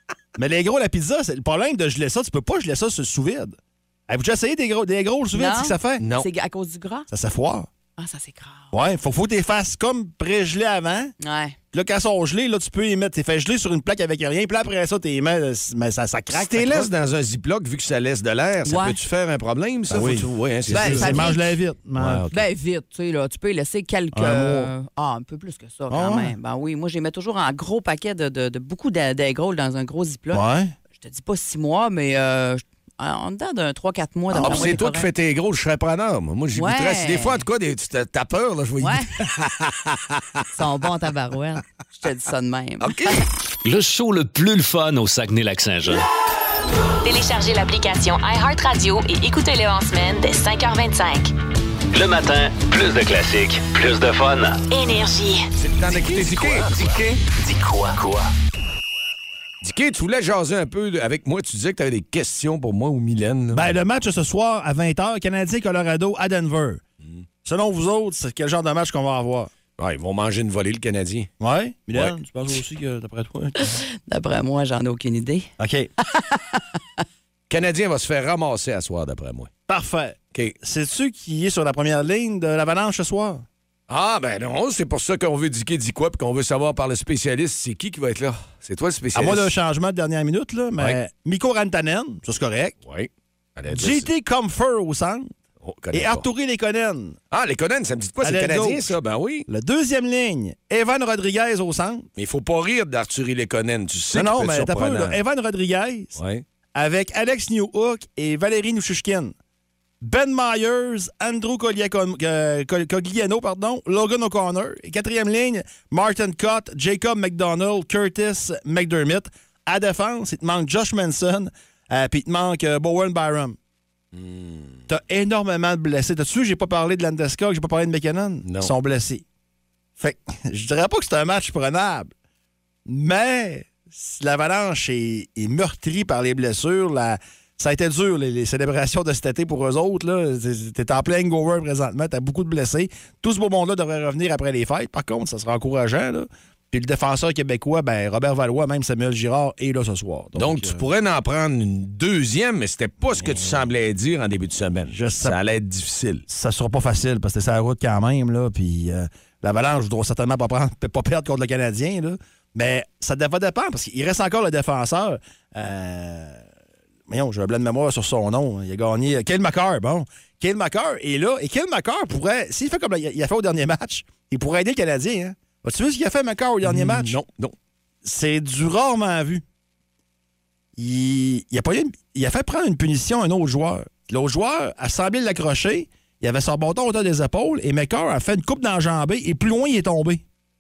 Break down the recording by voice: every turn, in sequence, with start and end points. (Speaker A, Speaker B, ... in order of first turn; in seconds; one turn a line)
Speaker A: 0.4-3.6
Speaker A: 4.1-6.0
Speaker B: 5.3-7.1
Speaker C: 6.0-6.3
Speaker A: 7.1-7.7
Speaker B: 8.0-8.7
Speaker A: 8.7-11.1
Speaker B: 11.2-11.6
Speaker A: 11.7-16.9
Speaker C: 16.3-21.3
Speaker B: 18.7-19.0
Speaker A: 19.9-22.2
Speaker B: 20.7-21.6
Speaker C: 22.0-22.5
Speaker B: 22.3-30.4
Speaker A: 24.1-24.7
Speaker A: 25.9-26.4
Speaker A: 30.3-30.7
Speaker B: 31.0-35.1
Speaker C: 34.3-40.4
Speaker B: 36.5-37.4
Speaker B: 38.8-39.1
Speaker B: 40.5-43.2
Speaker C: 42.8-43.2
Speaker D: 43.7-46.0
Speaker E: 47.0-51.3
Speaker D: 51.9-54.6
Speaker E: 54.7-55.5
Speaker C: 55.6-57.0
Speaker D: 55.9-58.3
Speaker C: 59.6-63.7
Speaker A: 63.5-66.8
Speaker A: 67.4-69.5
Speaker C: 69.8-71.3
Speaker A: 71.4-73.8
Speaker B: 73.6-75.5
Speaker A: 75.6-75.9
Speaker B: 76.0-76.8
Speaker C: 77.5-79.5
Speaker A: 79.7-83.5
Speaker C: 83.9-89.5
Speaker A: 89.1-92.8
Speaker C: 92.9-94.1
Speaker A: 93.7-95.3
Speaker C: 95.6-96.3
Speaker A: 95.9-97.2
Speaker C: 97.3-99.5
Speaker A: 98.2-98.9
Speaker A: 99.5-102.1
Speaker C: 102.2-105.2
Speaker A: 104.1-106.2
Speaker C: 106.2-106.4
Speaker A: 106.8-109.3
Speaker A: 110.0-123.6
Speaker C: 124.1-124.8
Speaker A: 124.9-129.2
Speaker C: 128.5-128.7
Speaker A: 130.0-132.1
Speaker A: 132.9-150.8
Speaker C: 150.4-156.2
Speaker A: 153.1-153.6
Speaker A: 154.9-155.4
Speaker A: 156.3-166.4
Speaker A: 167.1-177.2
Speaker C: 176.6-177.5
Speaker A: 178.0-179.4
Speaker A: 180.8-190.2